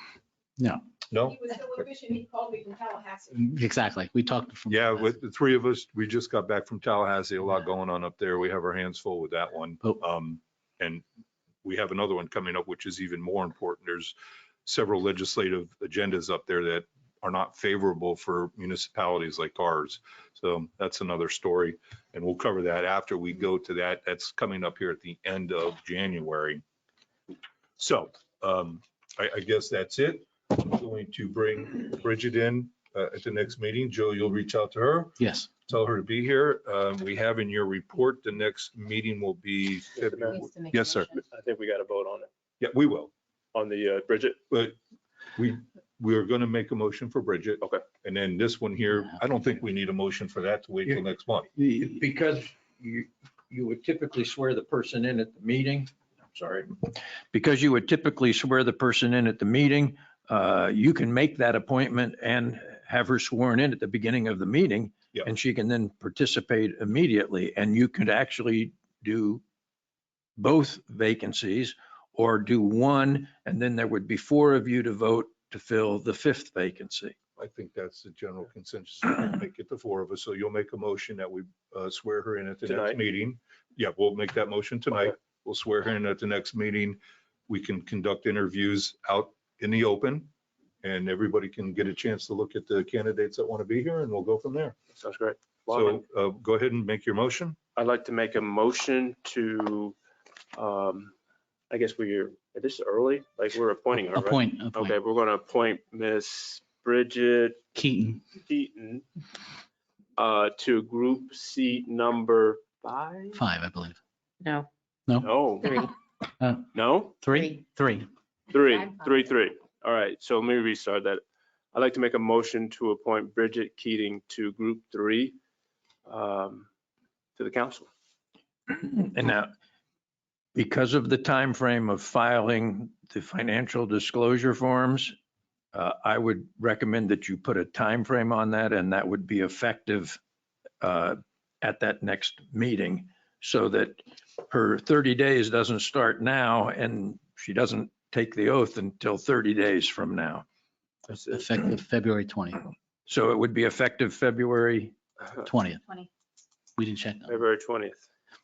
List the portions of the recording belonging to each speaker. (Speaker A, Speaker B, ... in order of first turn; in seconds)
Speaker A: 1.1-1.5, 4.7-11.0, 11.6-26.6, 27.8-41.1, 42.6-43.1, 44.5-44.8, 45.4-51.5, 77.4-90.3, 90.8-94.8, 95.7-97.6
Speaker B: 1.5-3.3, 40.3-41.2
Speaker C: 3.3-5.2, 35.2-35.5, 104.1-105.0, 107.7-108.2, 113.3-114.0, 115.1-115.4, 116.4-116.7, 117.2-118.1, 151.1-152.7, 155.4-155.8, 156.8-157.4
Speaker D: 39.9-40.5, 41.1-42.3, 43.5-44.4, 82.7-83.0, 94.9-96.0, 97.8-100.0, 100.5-101.1, 101.7-107.6, 108.3-109.0, 110.2-113.4, 115.2-115.9, 116.7-117.2, 118.5-121.2, 121.7-125.4, 126.0-126.7, 127.3-127.9, 151.1-151.4, 157.3-158.1
Speaker E: 51.5-69.4, 70.4-77.2, 128.7-129.5, 130.5-135.1, 135.7-140.2, 140.8-150.4, 153.1-154.9